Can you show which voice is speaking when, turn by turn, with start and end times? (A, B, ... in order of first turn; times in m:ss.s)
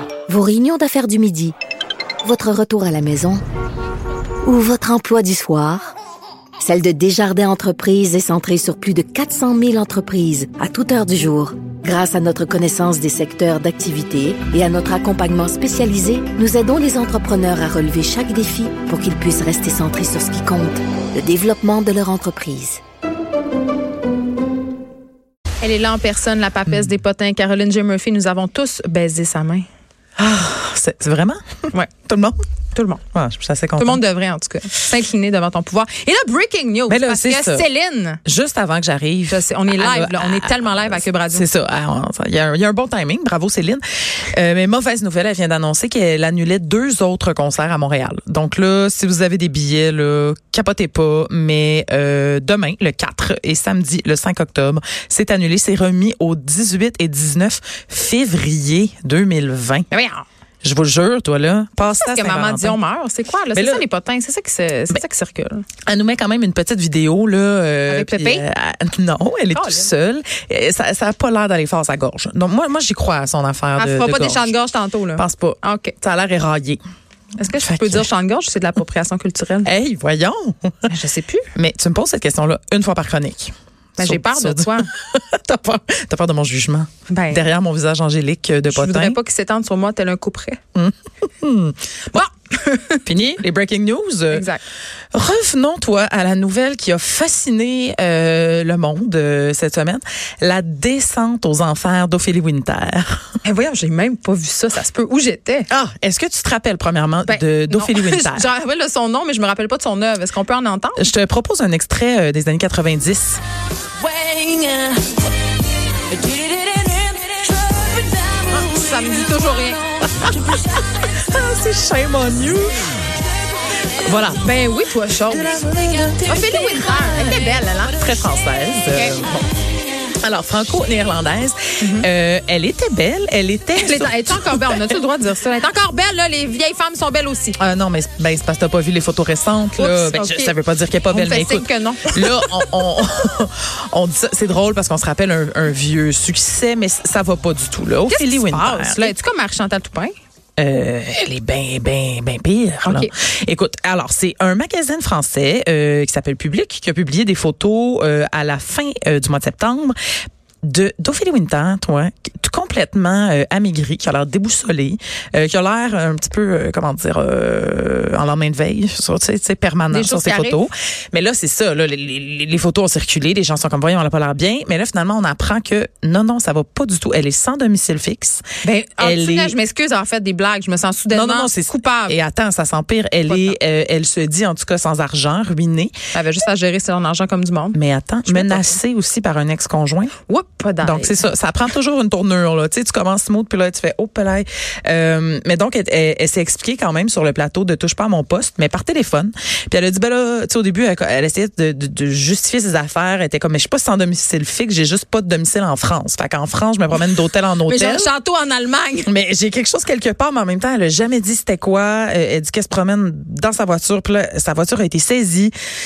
0:00.3-0:01.5 A
0:02.2-0:03.4 A
0:04.4-0:05.9 A
0:06.6-0:22.8 A
0:25.6-0:29.6 B
0:30.2-0:32.4 C
0:32.7-0:33.0 B
0:33.1-0:34.0 C
0:33.8-0:38.2 B
0:36.9-0:37.6 C
0:38.2-0:59.9 C
0:39.3-0:41.4 B
0:59.9-1:00.2 B
1:00.6-1:02.8 C
1:01.8-1:05.6 B
1:03.5-1:03.8 C
1:05.8-1:14.5 C
1:07.9-1:08.4 B
1:09.5-1:09.9 B
1:13.8-1:16.0 B
1:15.2-1:16.8 C
1:17.4-1:19.7 B
1:17.5-1:18.1 C
1:19.6-1:20.9 C
1:20.9-1:21.5 B
1:21.5-1:29.2 C
1:24.0-1:24.9 B
1:27.1-1:27.5 B
1:28.7-1:30.6 B
1:30.7-1:32.2 C
1:32.1-1:33.0 B
1:33.0-1:34.5 C
1:34.3-1:34.6 B
1:35.1-1:43.2 C
1:43.4-1:45.7 B
1:45.7-1:48.5 C
1:47.2-1:51.1 B
1:51.0-1:53.4 C
1:58.5-1:59.9 B
2:00.2-2:02.9 C
2:04.0-2:04.5 C
2:04.4-2:05.6 B
2:05.3-2:09.5 C
2:06.2-2:08.0 B
2:08.9-2:09.2 B
2:10.2-2:15.0 C
2:11.8-2:12.1 B
2:13.8-2:17.6 B
2:17.6-2:29.1 C
2:19.8-2:20.6 B
2:21.1-2:22.7 B
2:28.1-2:30.1 B
2:30.6-2:40.0 C
2:32.8-2:33.1 B
2:40.6-2:58.4 C
2:49.9-2:50.6 B
2:58.6-3:02.2 B
2:59.0-2:59.6 C
3:01.1-3:06.0 C
3:03.3-3:03.6 B
3:06.1-3:08.8 B
3:07.7-3:10.1 C
3:10.2-3:11.2 B
3:10.8-3:28.1 C
3:27.6-3:29.1 B
3:29.0-3:35.5 C